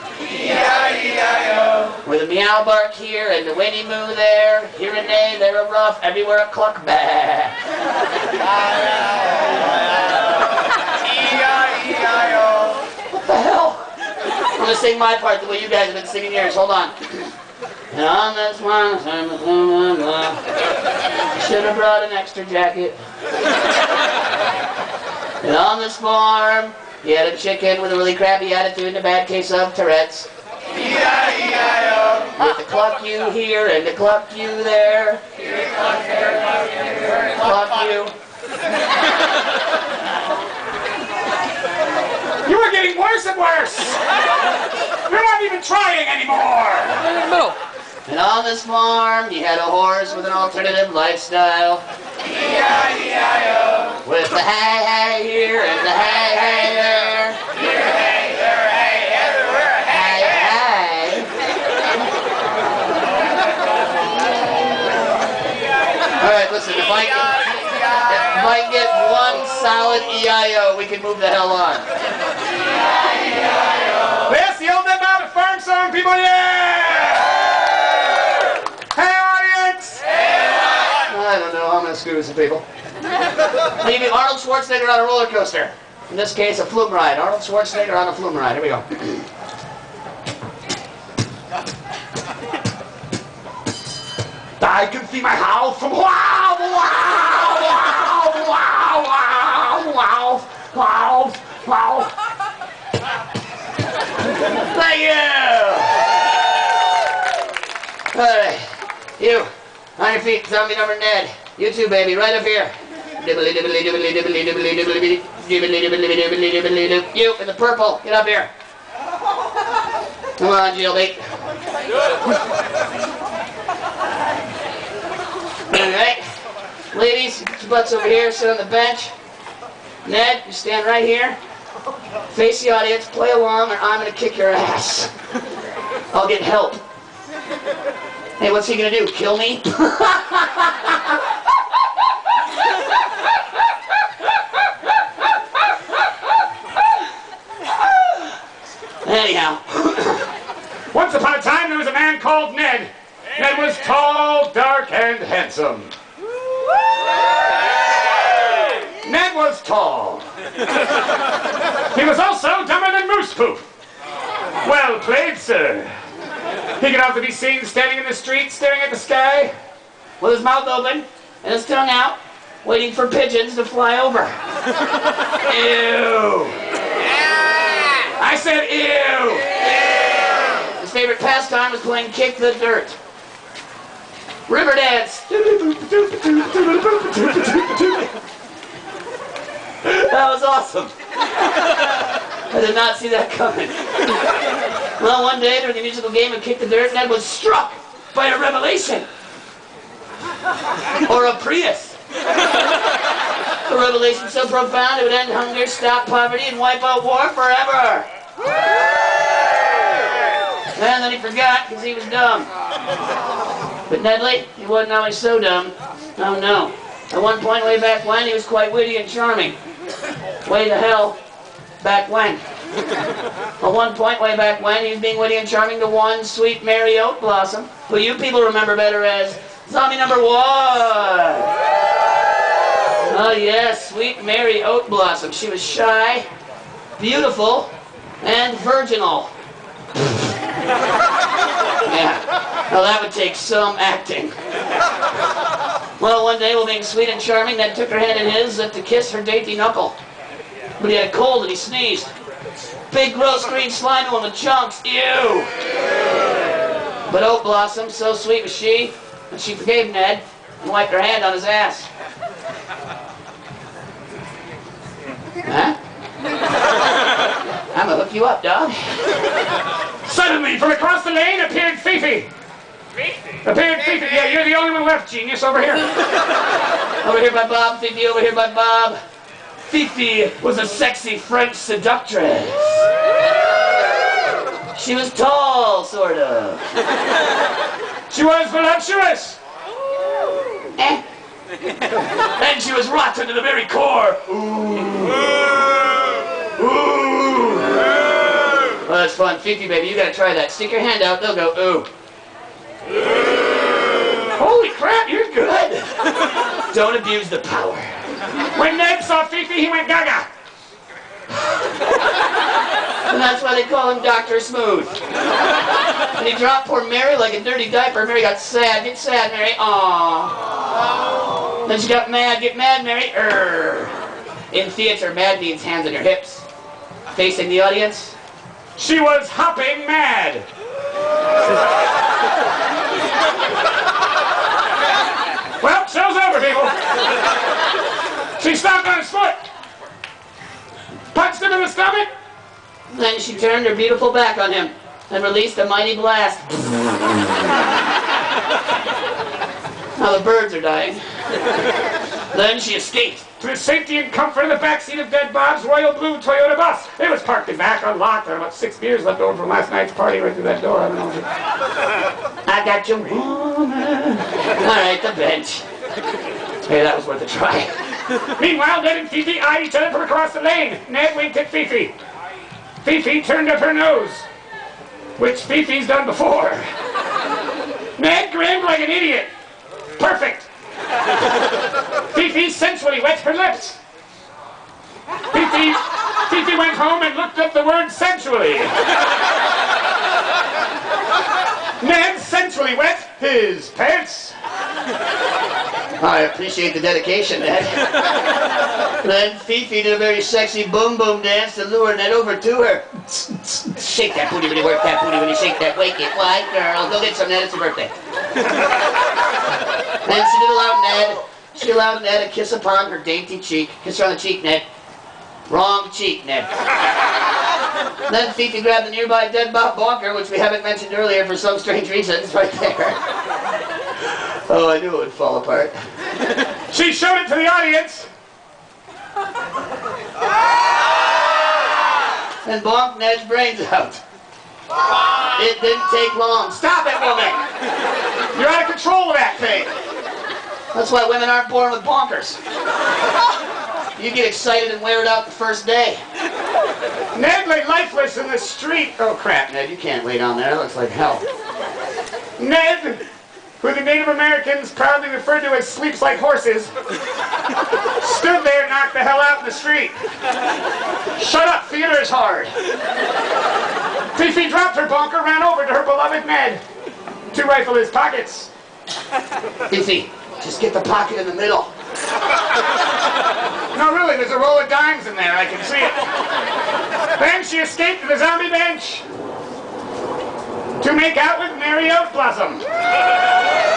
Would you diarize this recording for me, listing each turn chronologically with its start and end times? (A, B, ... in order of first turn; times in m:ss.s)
0:02.0-0:07.6 A
0:13.1-0:13.8 A
0:14.5-0:17.3 A
0:17.9-0:20.4 A
0:21.3-0:23.0 A
0:25.4-0:30.3 A
0:32.2-0:35.2 A
0:37.2-0:38.1 A
0:42.4-0:44.0 B
0:45.0-0:47.5 B
0:48.1-0:51.8 A
0:54.0-0:57.4 A
0:59.9-1:01.3 A
1:06.2-1:11.8 A
1:14.2-1:17.4 B
1:18.9-1:20.0 B
1:21.0-1:22.6 A
1:23.8-1:29.3 A
1:34.6-1:42.1 A
1:44.6-1:46.2 A
1:48.1-1:58.5 A
2:00.4-2:01.2 A
2:05.7-2:06.2 A
2:06.9-2:09.1 A
2:10.0-2:11.4 A
2:12.3-2:15.1 A
2:16.1-2:16.8 A
2:18.4-2:21.2 A
2:29.0-2:30.3 A
2:30.9-2:35.9 B
2:39.0-2:40.2 A
2:39.0-2:40.2 B
2:41.9-2:43.6 B
2:44.6-2:45.9 B
2:46.8-2:49.5 B
2:50.2-2:54.3 A
2:55.4-2:56.6 A
2:58.2-2:59.5 A
3:00.6-3:03.0 A
3:04.5-3:08.1 A
3:09.8-3:10.9 A
3:12.5-3:14.2 A
3:15.0-3:19.0 A
3:21.0-3:22.0 A
3:23.6-3:28.0 A
3:30.8-3:32.5 A
3:33.9-3:39.6 A
3:40.4-3:41.2 A
3:41.8-3:42.4 A
3:43.6-3:51.5 A
3:53.0-3:56.2 A
3:57.0-3:59.3 A
4:00.0-4:00.2 A
4:01.8-4:04.3 A
4:06.0-4:10.0 A
4:10.8-4:12.1 A
4:12.9-4:15.5 A
4:17.1-4:21.9 A
4:25.4-4:25.8 A
4:27.7-4:29.1 A
4:30.0-4:32.3 B
4:33.4-4:35.9 B
4:37.0-4:39.0 A
4:39.7-4:42.9 A
4:44.7-4:46.7 A
4:48.1-4:49.4 B
4:50.8-4:51.0 A
4:52.2-4:55.5 A
4:56.6-4:57.8 A
4:58.8-5:01.9 A
5:04.3-5:06.0 A
5:06.7-5:07.9 A
5:08.5-5:10.3 B
5:13.1-5:15.0 A
5:16.1-5:20.4 A
5:21.6-5:24.0 A
5:24.5-5:26.4 A
5:27.1-5:28.1 A
5:28.8-5:30.5 B
5:35.6-5:36.8 B
5:38.4-5:39.4 B
5:41.1-5:42.1 B
5:42.9-5:47.6 A
5:50.0-5:51.0 A
5:52.3-5:53.3 A
5:53.4-6:01.2 B
6:02.4-6:05.6 A
6:06.6-6:07.7 A
6:08.4-6:11.9 B
6:12.8-6:14.3 B
6:15.2-6:16.6 B
6:18.0-6:19.3 B
6:20.0-6:20.5 B
6:22.1-6:23.8 B
6:25.3-6:28.8 B
6:31.8-6:34.4 B
6:36.0-6:38.0 A
6:39.0-6:47.9 A
6:50.0-6:54.6 A
6:55.5-6:56.5 A
6:58.1-7:03.0 A
7:04.0-7:05.7 A
7:06.7-7:08.1 B
7:12.4-7:14.0 A
7:15.2-7:17.4 A
7:18.3-7:19.7 B
7:20.7-7:22.4 A
7:24.0-7:26.0 A
7:27.1-7:29.4 B
7:29.4-7:31.2 A
7:32.4-7:33.0 B
7:33.6-7:36.7 B
7:38.0-7:39.9 B
7:41.2-7:42.5 B
7:44.1-7:46.6 B
7:47.3-7:48.5 B
7:49.7-7:51.7 A
7:53.7-7:56.0 B
7:57.2-7:59.0 B
8:00.8-8:02.6 B